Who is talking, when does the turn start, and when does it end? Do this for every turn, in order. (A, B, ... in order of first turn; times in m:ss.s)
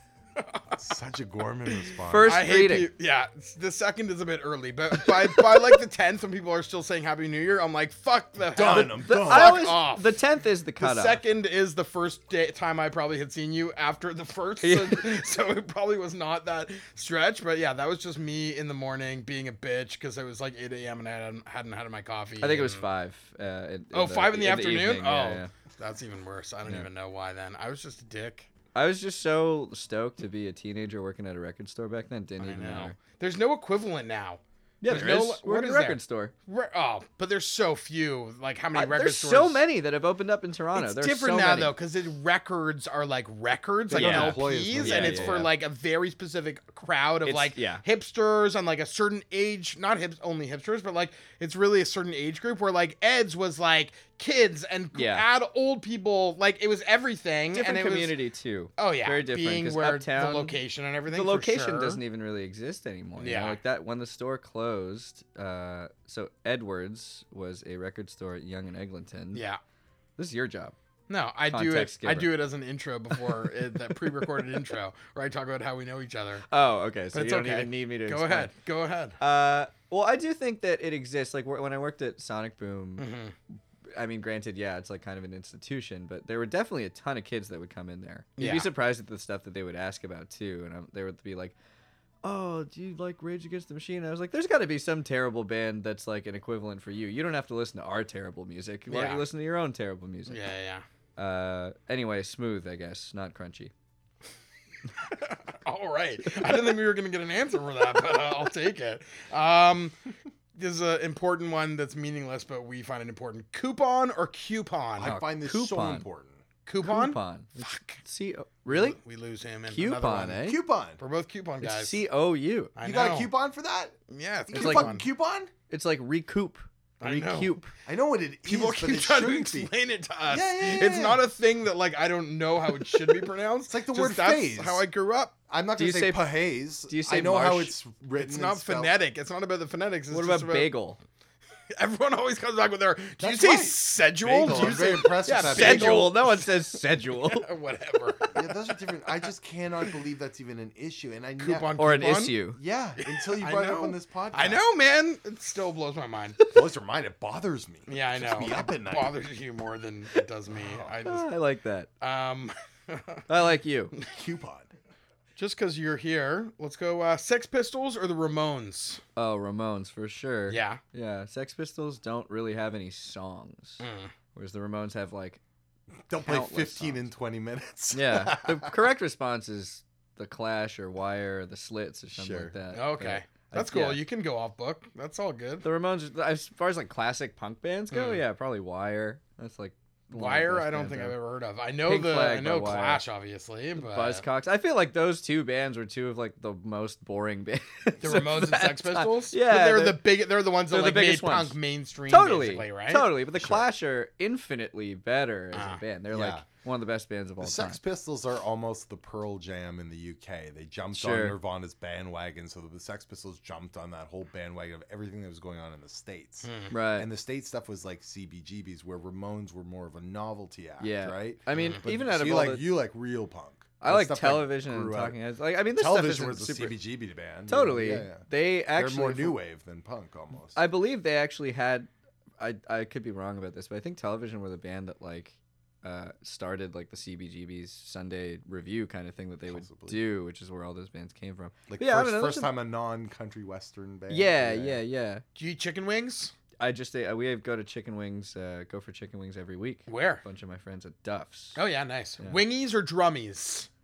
0:00.4-0:00.7 A
0:00.8-0:02.3 B
0:02.0-0:02.9 C
0:02.2-0:10.1 A
0:08.5-0:09.6 B
0:08.6-0:11.2 C
0:10.8-0:22.8 A
0:14.6-0:15.2 C
0:22.4-0:25.5 C
0:23.9-0:28.5 A
0:28.7-0:33.0 C
0:32.4-0:39.6 A
0:34.8-0:36.3 C
0:38.7-0:41.7 C
0:40.7-0:58.2 A
0:43.9-0:45.5 C
0:43.9-0:45.5 B
0:47.2-0:47.8 C
0:54.9-0:55.2 C
0:57.5-1:09.4 C
0:58.8-1:02.0 A
1:03.2-1:03.6 A
1:09.3-1:09.6 A
1:10.2-1:10.7 C
1:11.1-1:16.5 A
1:11.5-1:12.3 C
1:16.5-1:18.5 C
1:17.1-1:19.2 A
1:19.2-1:23.1 C
1:23.0-1:23.3 A
1:23.9-1:31.5 C
1:28.4-1:28.7 A
1:32.2-1:40.4 C
1:38.9-1:39.2 A
1:40.3-1:40.8 A
1:41.2-1:43.7 C
1:45.0-1:50.0 A
1:50.6-1:55.2 A
1:55.0-1:56.4 B
1:55.0-1:56.0 C
1:56.6-1:58.0 A
1:56.8-1:59.0 C
1:58.6-2:00.4 A
1:59.7-2:00.6 C
2:00.4-2:01.0 B
2:01.0-2:02.0 A
2:01.6-2:02.7 C
2:02.8-2:03.3 A
2:02.8-2:04.0 B
2:04.1-2:05.0 A
2:04.5-2:05.5 B
2:04.5-2:04.9 C
2:05.7-2:07.7 C
2:07.0-2:07.5 A
2:07.8-2:09.7 B
2:08.4-2:15.3 A
2:10.3-2:11.2 B
2:13.7-2:14.8 B
2:15.5-2:18.9 B
2:15.8-2:17.7 C
2:18.2-2:20.7 A
2:20.1-2:21.0 C
2:21.7-2:26.6 A
2:23.2-2:26.1 B
2:25.3-2:27.5 C
2:27.2-2:28.4 A
2:28.3-2:31.7 B
2:31.4-2:32.4 A
2:31.8-2:32.6 C
2:32.5-2:34.6 B
2:33.0-2:36.4 A
2:36.5-2:39.1 B
2:37.9-2:41.3 A
2:40.6-2:40.9 B
2:41.0-2:41.9 C
2:42.0-2:43.2 A
2:43.3-2:43.9 C
2:44.1-2:44.7 B
2:45.4-2:49.0 A
2:49.2-2:53.8 C
2:50.5-2:50.8 A
2:53.8-2:54.1 A
2:54.3-2:55.4 C
2:56.1-2:58.8 B
2:56.2-2:57.0 C
2:57.9-3:04.0 C
3:02.1-3:02.5 B
3:02.7-3:05.6 A
3:05.6-3:11.2 C
3:07.9-3:08.2 A
3:10.1-3:14.2 A
3:11.8-3:13.0 C
3:13.8-3:21.6 C
3:18.0-3:23.1 A
3:22.1-3:27.8 C
3:23.3-3:23.6 B
3:25.5-3:25.8 A
3:26.1-3:26.4 B
3:27.4-3:45.2 B
3:30.9-3:31.4 C
3:36.4-3:36.7 A
3:36.7-3:37.1 C
3:40.8-3:42.7 C
3:41.5-3:41.8 A
3:43.8-3:46.8 C
3:45.7-3:50.6 B
3:47.5-3:49.4 C
3:50.5-4:02.5 C
3:59.5-4:00.0 B
4:01.7-4:04.8 B
4:04.1-4:05.2 C
4:05.3-4:06.3 A
4:06.6-4:11.6 C
4:09.9-4:10.2 A
4:11.6-4:13.7 A